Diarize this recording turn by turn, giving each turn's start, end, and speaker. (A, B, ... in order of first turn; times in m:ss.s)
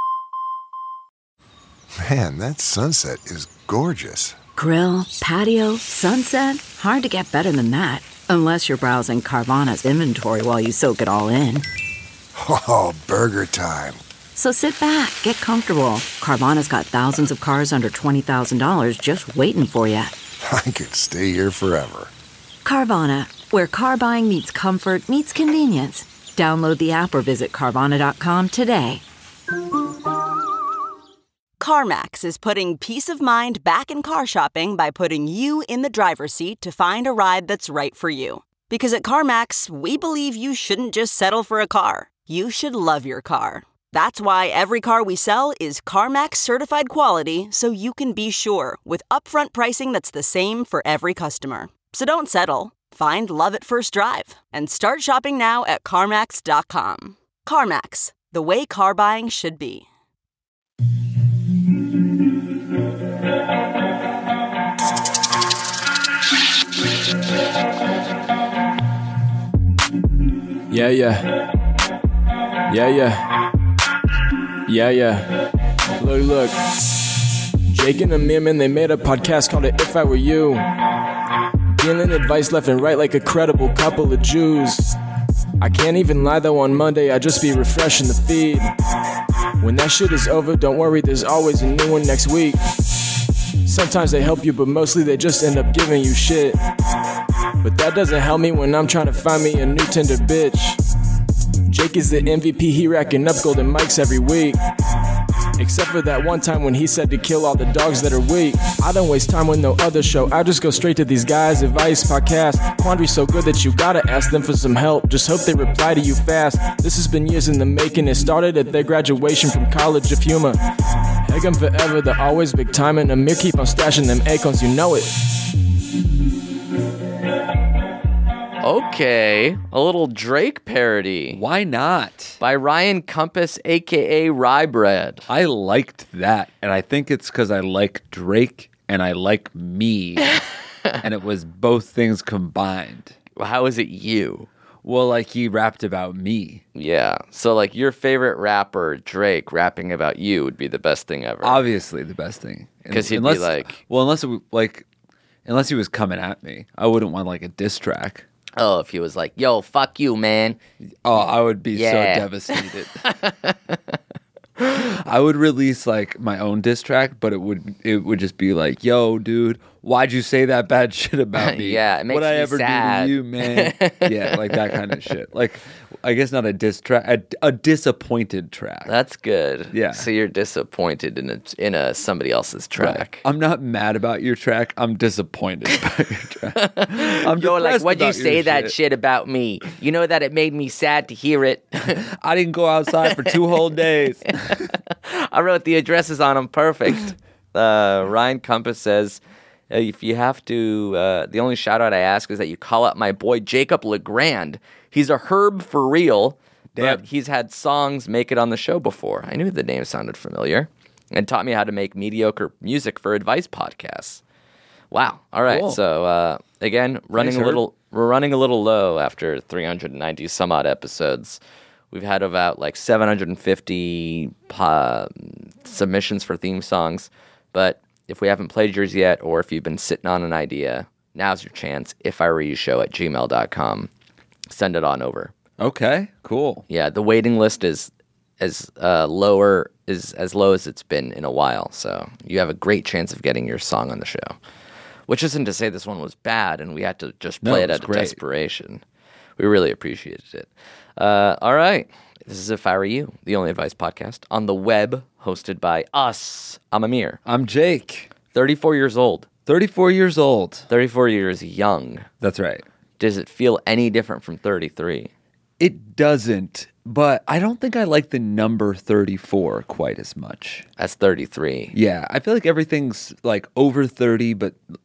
0:02.0-0:04.4 A
0:04.6-0:11.7 B
0:12.4-0:14.0 A
0:14.4-0:20.1 B
0:20.4-0:22.1 A
0:22.6-0:29.0 B
0:31.6-0:59.8 C
1:10.7-1:11.4 D
1:12.7-1:13.4 D
1:14.7-1:15.5 D
1:16.0-1:16.6 D
1:17.7-1:20.7 D
1:21.8-1:25.0 D
1:25.6-1:28.7 D
1:29.6-1:32.6 D
1:33.7-1:36.6 D
1:37.6-1:40.8 D
1:41.7-1:44.6 D
1:45.6-2:00.6 D
2:01.2-2:05.1 D
2:08.6-2:11.4 E
2:11.3-2:12.4 F
2:12.4-2:15.3 E
2:15.3-2:20.3 F
2:21.0-2:23.2 F
2:23.4-2:24.5 E
2:24.8-2:26.6 F
2:26.8-2:31.6 E
2:31.4-2:34.9 F
2:32.9-2:33.8 E
2:35.4-2:38.2 F
2:38.6-2:40.6 E
2:41.0-2:43.0 F
2:41.7-2:43.9 E
2:44.7-2:58.9 F
2:51.4-2:55.0 E
2:58.9-3:03.2 E
2:59.7-3:00.1 F
3:02.8-3:08.8 F
3:06.6-3:12.0 E
3:12.0-3:14.7 F
3:14.3-3:34.2 E
3:26.8-3:27.0 F
3:34.9-3:41.4 E
3:35.5-3:35.8 F
3:37.1-3:37.6 F
3:41.9-3:53.9 E
3:54.5-3:55.3 E
3:55.6-3:56.6 F
3:56.7-4:04.4 E
4:05.1-4:08.8 E
4:07.4-4:08.2 F
4:09.4-4:17.2 E
4:17.2-4:18.1 F
4:18.3-4:19.3 E
4:19.5-4:20.7 F
4:20.7-4:22.1 E
4:22.2-4:22.7 F
4:23.0-4:25.1 E
4:25.6-4:30.7 F
4:30.8-4:31.8 E
4:31.7-4:34.6 F